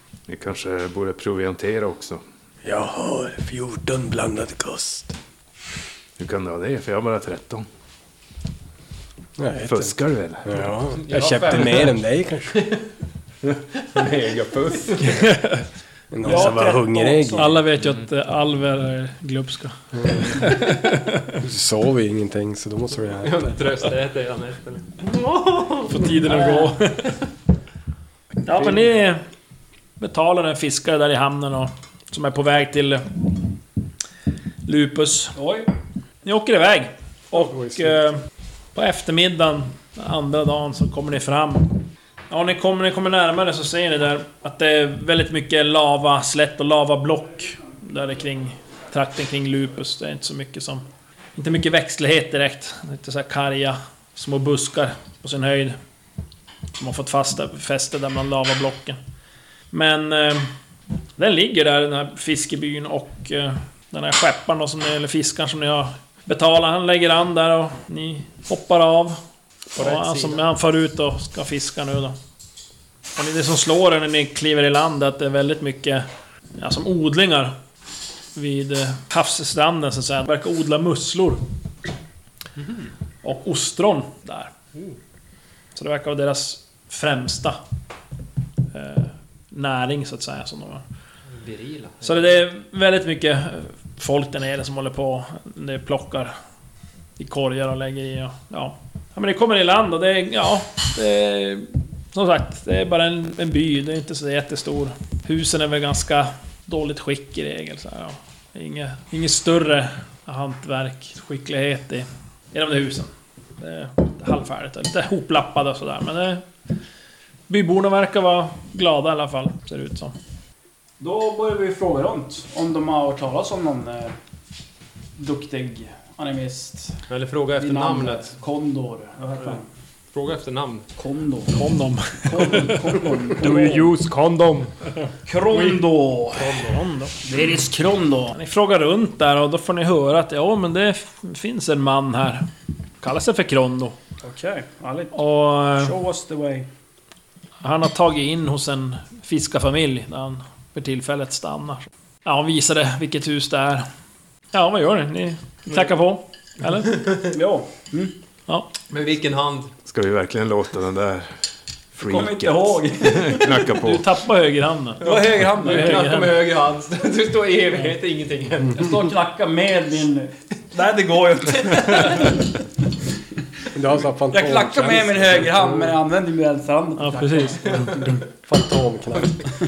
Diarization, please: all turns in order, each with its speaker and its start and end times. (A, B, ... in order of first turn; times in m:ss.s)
0:00.3-0:02.2 A
0:02.6-0:05.1 B
0:06.2-0:07.7 A
0:09.4-0:12.6 B
0:09.6-0:10.6 A
0:11.0-0:12.0 C
0:12.5-0:12.8 C
0:13.9-0:15.2 C
0:15.1-0:15.6 D
0:16.1-0:17.6 B
0:16.2-0:17.6 E
0:17.4-0:21.4 D
0:17.8-0:18.1 A
0:19.9-0:20.4 B
0:21.4-0:23.5 B
0:23.2-0:25.7 C
0:25.8-0:27.2 D
0:26.2-0:26.8 E
0:28.4-0:29.2 D
0:30.0-0:33.1 D
0:34.7-0:35.4 D
0:35.4-0:35.7 E
0:36.2-0:38.2 D
0:37.3-0:38.0 B
0:38.8-0:50.8 D
0:51.4-0:55.8 D
0:56.8-0:59.0 D
0:59.7-1:00.5 D
1:01.2-1:09.2 D
1:09.7-1:12.2 D
1:09.8-1:10.4 C
1:13.2-1:16.1 D
1:16.6-1:17.6 D
1:18.4-1:21.4 D
1:23.2-1:24.5 D
1:25.8-1:27.6 D
1:28.7-1:30.8 D
1:31.3-1:32.4 C
1:32.0-1:36.3 D
1:37.2-1:56.4 D
1:57.5-2:00.2 D
2:01.0-2:04.2 E
2:05.2-2:07.0 E
2:07.1-2:08.3 C
2:07.6-2:09.6 E
2:10.1-2:10.9 C
2:11.0-2:11.6 E
2:11.5-2:13.0 D
2:12.2-2:13.9 E
2:13.4-2:14.9 C
2:15.3-2:16.7 E
2:16.4-2:16.8 C
2:16.6-2:17.2 D
2:17.2-2:18.3 E
2:18.3-2:22.5 D
2:23.0-2:24.0 D
2:24.2-2:25.2 E
2:25.1-2:25.9 D
2:25.8-2:26.7 E
2:27.6-2:33.9 D
2:34.5-2:37.0 D
2:37.3-2:38.1 E
2:38.9-2:39.7 C
2:39.8-2:41.3 A
2:42.0-2:44.1 A
2:42.0-2:43.6 E
2:43.8-2:46.4 D
2:45.0-2:49.1 C
2:45.0-2:46.1 E
2:48.7-2:52.6 E
2:53.7-2:56.0 B
2:54.3-2:58.2 E
2:57.0-2:58.1 D
2:58.4-2:59.4 B